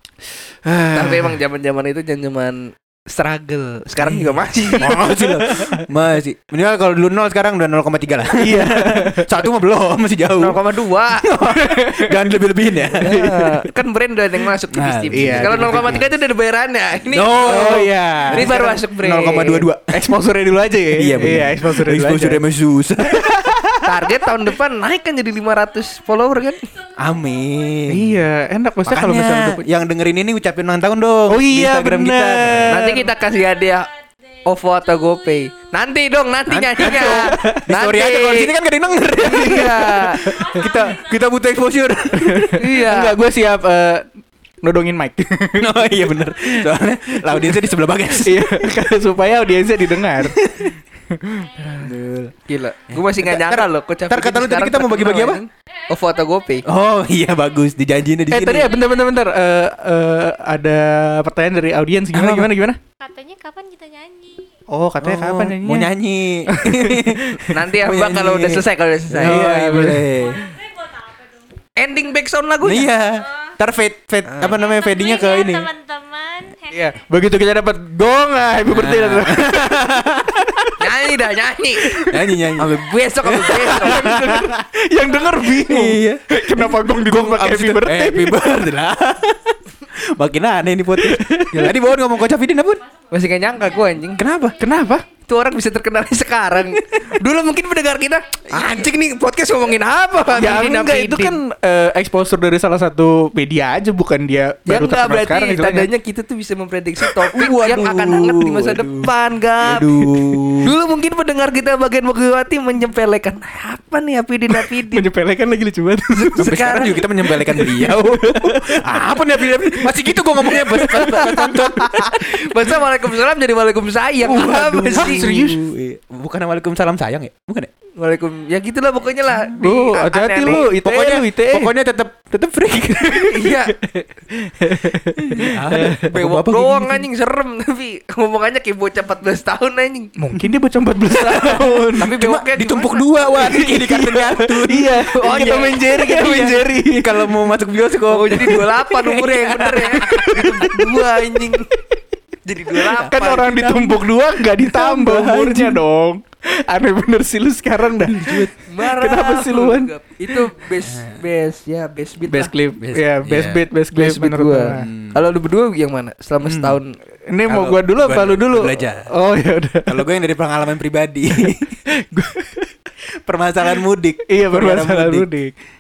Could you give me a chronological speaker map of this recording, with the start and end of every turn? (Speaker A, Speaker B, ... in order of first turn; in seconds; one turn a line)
Speaker A: 0.7-1.4
Speaker B: 0.9-4.9
Speaker C: 4.8-5.8
Speaker A: 4.8-13.4
Speaker C: 8.4-9.3
Speaker B: 10.4-11.3
Speaker C: 11.5-12.2
Speaker B: 13.0-19.7
Speaker A: 14.7-16.1
Speaker C: 15.1-16.0
Speaker A: 17.1-20.0
Speaker C: 17.5-18.8
Speaker C: 19.9-22.4
Speaker A: 21.0-23.5
Speaker C: 23.0-23.7
Speaker B: 23.8-26.7
Speaker D: 25.4-27.8
Speaker A: 27.0-28.1
Speaker C: 27.9-29.6
Speaker A: 28.9-32.8
Speaker C: 31.3-33.1
Speaker B: 32.7-33.9
Speaker D: 33.1-33.8
Speaker B: 34.5-38.5
Speaker D: 34.6-35.5
Speaker A: 36.5-42.7
Speaker C: 36.8-37.7
Speaker B: 39.2-40.2
Speaker C: 39.2-40.4
Speaker D: 40.2-41.5
Speaker C: 42.2-44.0
Speaker B: 42.5-43.2
Speaker C: 44.6-46.0
Speaker A: 45.6-48.5
Speaker C: 46.5-47.6
Speaker C: 48.2-51.5
Speaker D: 49.2-49.6
Speaker A: 50.2-50.6
Speaker D: 51.4-51.8
Speaker B: 51.6-56.7
Speaker A: 51.9-52.3
Speaker A: 52.9-55.4
Speaker D: 55.7-57.8
Speaker A: 56.6-58.7
Speaker C: 58.3-62.8
Speaker D: 58.7-59.2
Speaker A: 62.1-62.5
Speaker D: 63.0-64.5
Speaker C: 64.7-65.9
Speaker A: 65.0-70.4
Speaker C: 66.5-67.4
Speaker B: 67.5-69.5
Speaker C: 69.2-70.5
Speaker D: 70.2-71.5
Speaker B: 71.8-72.9
Speaker A: 72.6-75.7
Speaker D: 73.2-73.5
Speaker B: 74.3-74.6
Speaker D: 74.4-77.0
Speaker C: 76.7-80.8
Speaker A: 78.7-80.4
Speaker B: 80.8-81.9
Speaker C: 81.8-82.1
Speaker A: 82.1-84.6
Speaker B: 82.6-84.5
Speaker C: 83.6-88.3
Speaker D: 85.1-85.7
Speaker A: 85.6-89.5
Speaker A: 90.1-92.8
Speaker C: 91.0-91.7
Speaker D: 92.9-95.0
Speaker B: 93.1-94.3
Speaker A: 94.2-94.5
Speaker C: 94.6-95.0
Speaker B: 95.3-101.4
Speaker C: 100.3-105.9
Speaker B: 104.7-115.1
Speaker A: 107.3-109.1
Speaker A: 109.6-110.7
Speaker C: 114.8-116.6
Speaker B: 116.1-117.1
Speaker A: 116.4-122.2
Speaker C: 117.5-121.7
Speaker B: 120.8-125.2
Speaker A: 124.2-127.7
Speaker C: 124.9-125.6
Speaker B: 128.0-130.8
Speaker C: 129.6-131.7
Speaker A: 130.5-133.3
Speaker B: 133.2-133.8
Speaker C: 133.8-136.0
Speaker A: 135.4-137.1
Speaker B: 136.1-140.1
Speaker C: 140.2-142.2
Speaker A: 141.3-150.7
Speaker B: 142.0-143.1
Speaker C: 143.4-147.2
Speaker B: 145.2-146.5
Speaker B: 148.1-151.7
Speaker B: 152.4-154.0
Speaker C: 152.8-160.4
Speaker A: 154.7-155.8
Speaker A: 158.0-158.5
Speaker B: 158.7-162.5
Speaker A: 160.9-161.2
Speaker C: 162.3-164.9
Speaker A: 162.8-163.6
Speaker B: 163.9-166.9
Speaker A: 164.8-165.2
Speaker A: 166.4-166.8
Speaker C: 167.3-170.0
Speaker A: 167.5-169.1
Speaker A: 169.9-171.6
Speaker C: 171.4-172.7
Speaker A: 173.2-175.3
Speaker C: 174.3-175.5